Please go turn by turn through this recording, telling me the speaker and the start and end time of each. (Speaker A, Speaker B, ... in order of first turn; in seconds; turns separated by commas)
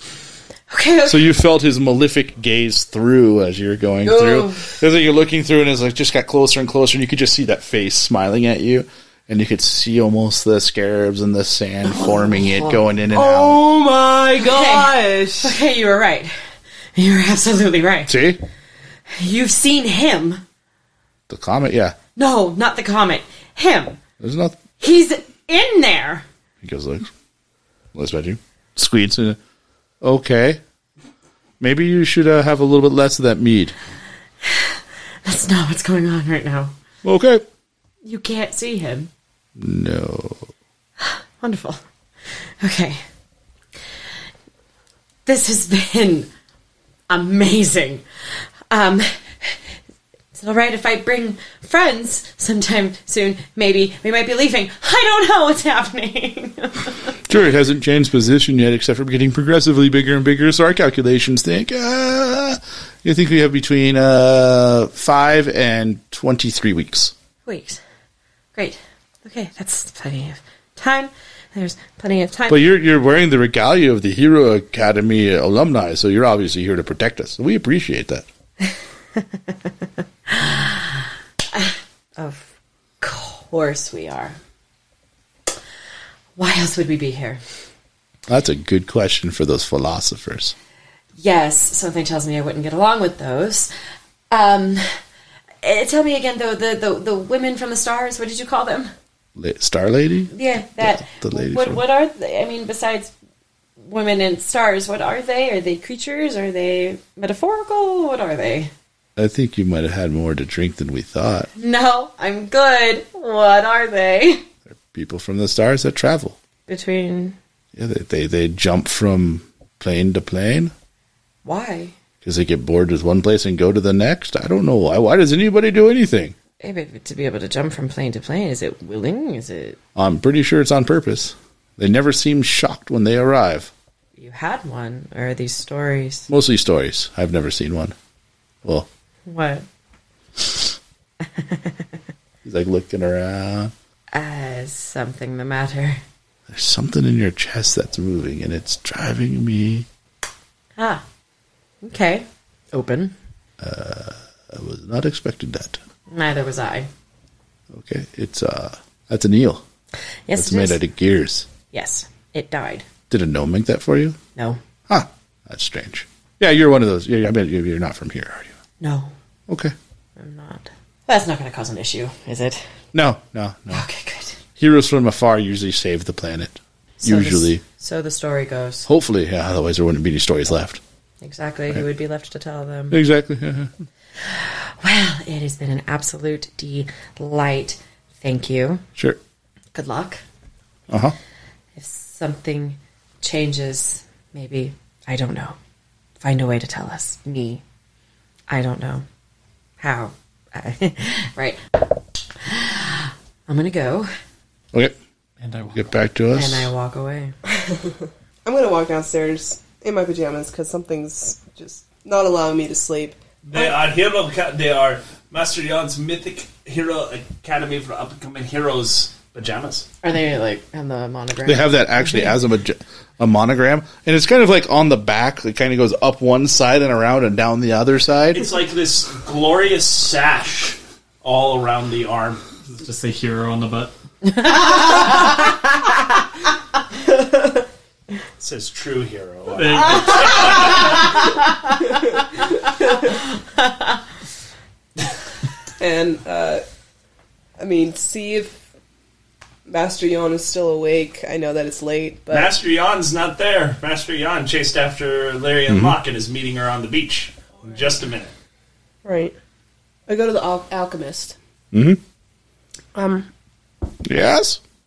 Speaker A: 0.7-1.2, Speaker B: 1.1-13.6, Speaker A: 4.0-4.7, Speaker A: 12.0-12.8, Speaker C: 13.1-15.6, Speaker A: 14.4-16.3, Speaker A: 16.9-18.2, Speaker B: 18.1-18.4, Speaker A: 19.1-20.4, Speaker B: 21.3-21.9, Speaker A: 22.1-24.0, Speaker B: 24.2-24.6, Speaker A: 24.8-26.3, Speaker B: 26.6-27.1, Speaker B: 27.9-29.4, Speaker B: 30.0-30.6, Speaker B: 31.6-33.8, Speaker A: 34.5-36.7, Speaker B: 37.0-37.4, Speaker A: 38.0-39.1, Speaker B: 39.6-40.5, Speaker A: 41.0-43.0, Speaker A: 45.3-46.3, Speaker A: 47.1-48.0, Speaker A: 48.7-49.7, Speaker A: 50.3-57.1, Speaker B: 57.3-67.1, Speaker A: 67.5-67.8, Speaker A: 68.5-72.7, Speaker B: 72.5-78.3, Speaker A: 79.2-79.5, Speaker A: 80.3-82.5, Speaker A: 83.0-84.4, Speaker A: 86.4-87.4, Speaker B: 88.3-90.5, Speaker A: 91.2-93.7, Speaker A: 94.3-95.0, Speaker A: 95.6-98.9, Speaker B: 99.4-101.8, Speaker A: 100.3-103.1, Speaker A: 103.8-108.7, Speaker B: 109.2-111.5, Speaker A: 111.6-114.4, Speaker B: 114.7-116.4, Speaker A: 116.7-117.4, Speaker B: 117.8-120.7, Speaker A: 121.4-121.9, Speaker B: 122.2-126.3, Speaker A: 126.6-129.8, Speaker B: 129.9-133.7, Speaker A: 134.2-136.3, Speaker B: 136.3-137.9, Speaker A: 139.3-139.7, Speaker A: 141.2-141.9, Speaker B: 142.4-143.7, Speaker A: 144.1-146.0, Speaker B: 146.5-149.9, Speaker A: 150.8-151.0, Speaker A: 151.8-153.2, Speaker B: 153.6-155.8, Speaker A: 156.1-156.9, Speaker B: 157.7-159.6, Speaker A: 160.3-160.8, Speaker B: 160.3-161.5, Speaker A: 161.7-162.9, Speaker B: 163.1-164.2, Speaker B: 164.9-168.6, Speaker A: 168.8-169.1, Speaker B: 169.5-169.7, Speaker A: 170.2-172.6, Speaker B: 172.9-173.8, Speaker A: 173.7-174.4, Speaker B: 174.6-177.6, Speaker A: 177.0-178.9, Speaker B: 178.9-180.8, Speaker A: 181.2-183.0, Speaker B: 182.9-183.7, Speaker A: 184.2-188.8, Speaker A: 189.7-190.2, Speaker B: 190.9-191.1, Speaker A: 191.8-195.6, Speaker A: 196.2-197.6, Speaker A: 198.5-199.1, Speaker A: 199.8-204.1, Speaker D: 205.4-205.8, Speaker B: 205.7-206.7, Speaker A: 206.3-207.3, Speaker C: 208.4-213.8, Speaker E: 213.4-219.9, Speaker A: 220.0-222.3, Speaker B: 221.4-228.4, Speaker E: 228.3-232.5, Speaker D: 232.7-233.9, Speaker A: 234.4-235.4, Speaker E: 238.4-241.1, Speaker D: 239.5-241.0, Speaker A: 240.0-241.5, Speaker C: 242.8-243.0, Speaker C: 245.8-246.6, Speaker C: 247.6-248.6, Speaker C: 249.7-252.5, Speaker E: 252.3-258.3, Speaker B: 255.7-256.0, Speaker C: 259.0-259.3, Speaker C: 260.1-261.4, Speaker B: 261.7-262.0, Speaker C: 262.9-263.3, Speaker B: 264.0-264.6